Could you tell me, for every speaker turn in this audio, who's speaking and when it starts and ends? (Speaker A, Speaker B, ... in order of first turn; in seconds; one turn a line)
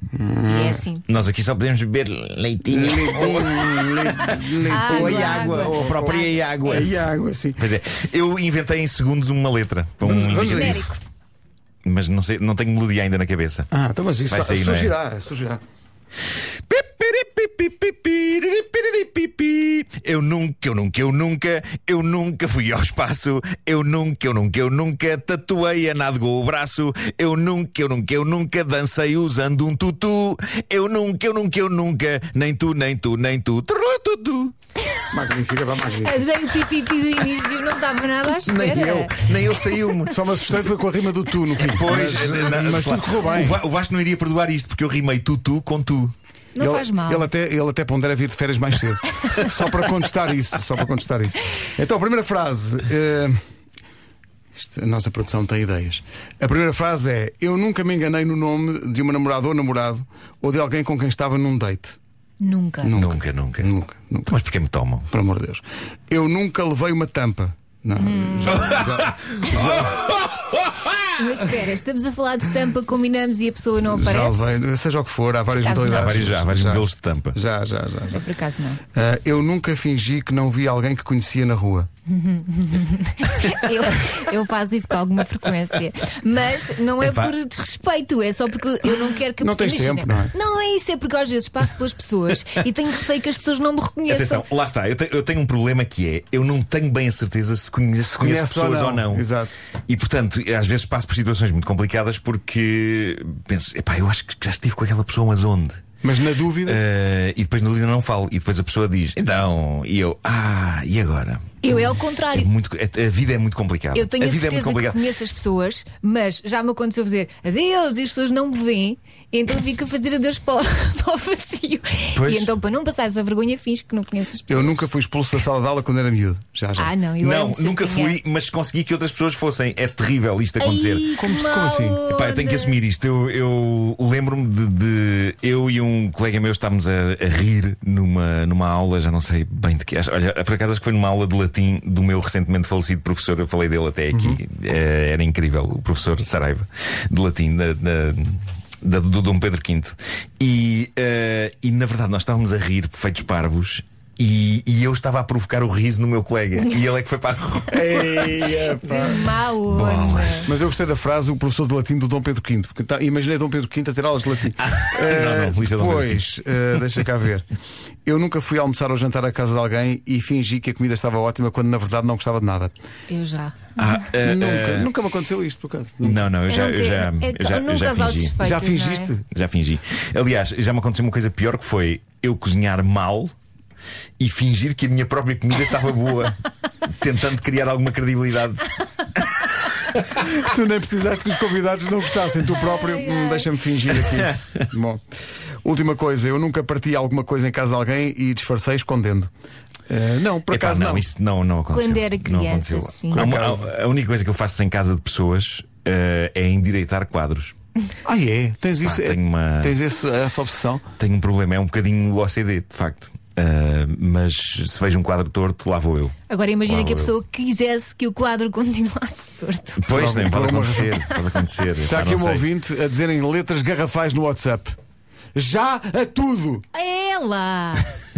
Speaker A: 0.1-0.8
Speaker B: 0.5-1.2
Speaker C: 1.1-7.0
Speaker A: 2.7-6.1
Speaker B: 4.7-6.8
Speaker A: 6.6-7.6
Speaker C: 7.6-10.9
Speaker A: 10.0-10.9
Speaker B: 10.4-11.0
Speaker C: 11.8-13.7
Speaker A: 13.7-15.6
Speaker C: 14.3-14.9
Speaker C: 16.7-34.5
Speaker A: 35.1-36.2
Speaker B: 36.0-40.1
Speaker C: 38.4-40.7
Speaker A: 40.0-43.6
Speaker C: 41.5-46.1
Speaker B: 46.5-47.3
Speaker A: 46.6-53.4
Speaker A: 54.6-62.0
Speaker B: 62.4-63.0
Speaker A: 62.8-64.3
Speaker C: 62.9-63.7
Speaker C: 64.3-65.1
Speaker A: 65.1-70.0
Speaker B: 67.9-68.8
Speaker C: 68.5-70.9
Speaker B: 71.2-74.5
Speaker A: 73.8-78.2
Speaker B: 75.6-76.2
Speaker C: 75.8-77.4
Speaker B: 78.1-78.8
Speaker A: 78.9-81.9
Speaker B: 82.1-94.4
Speaker C: 87.0-87.3
Speaker A: 89.4-90.3
Speaker C: 94.1-99.3
Speaker A: 98.1-99.5
Speaker C: 99.9-105.8
Speaker A: 106.0-106.8
Speaker C: 106.6-115.0
Speaker B: 111.6-112.5
Speaker B: 113.9-124.8
Speaker C: 122.1-122.5
Speaker A: 124.5-126.9
Speaker B: 126.8-128.2
Speaker C: 127.2-131.1
Speaker B: 130.6-132.8
Speaker A: 131.2-132.0
Speaker C: 132.1-158.3
Speaker A: 144.1-144.4
Speaker A: 157.7-159.3
Speaker B: 158.8-160.5
Speaker C: 159.7-160.5
Speaker A: 160.4-167.4
Speaker C: 164.6-166.2
Speaker A: 168.1-172.7
Speaker B: 173.1-173.8
Speaker C: 173.8-174.9
Speaker A: 174.2-176.3
Speaker C: 176.0-178.4
Speaker B: 176.4-179.1
Speaker A: 178.4-179.2
Speaker C: 179.3-183.3
Speaker C: 184.2-189.4
Speaker A: 190.2-195.0
Speaker B: 192.6-193.5
Speaker A: 195.6-199.3
Speaker A: 199.9-201.1
Speaker C: 200.5-207.5
Speaker B: 201.7-203.3
Speaker A: 203.1-203.7
Speaker A: 208.0-210.8
Speaker C: 208.8-209.8
Speaker C: 211.0-217.1
Speaker B: 216.3-219.8
Speaker C: 219.8-222.5
Speaker A: 219.9-220.9
Speaker B: 220.8-221.2
Speaker A: 221.8-224.7
Speaker A: 225.3-226.7
Speaker B: 226.7-227.9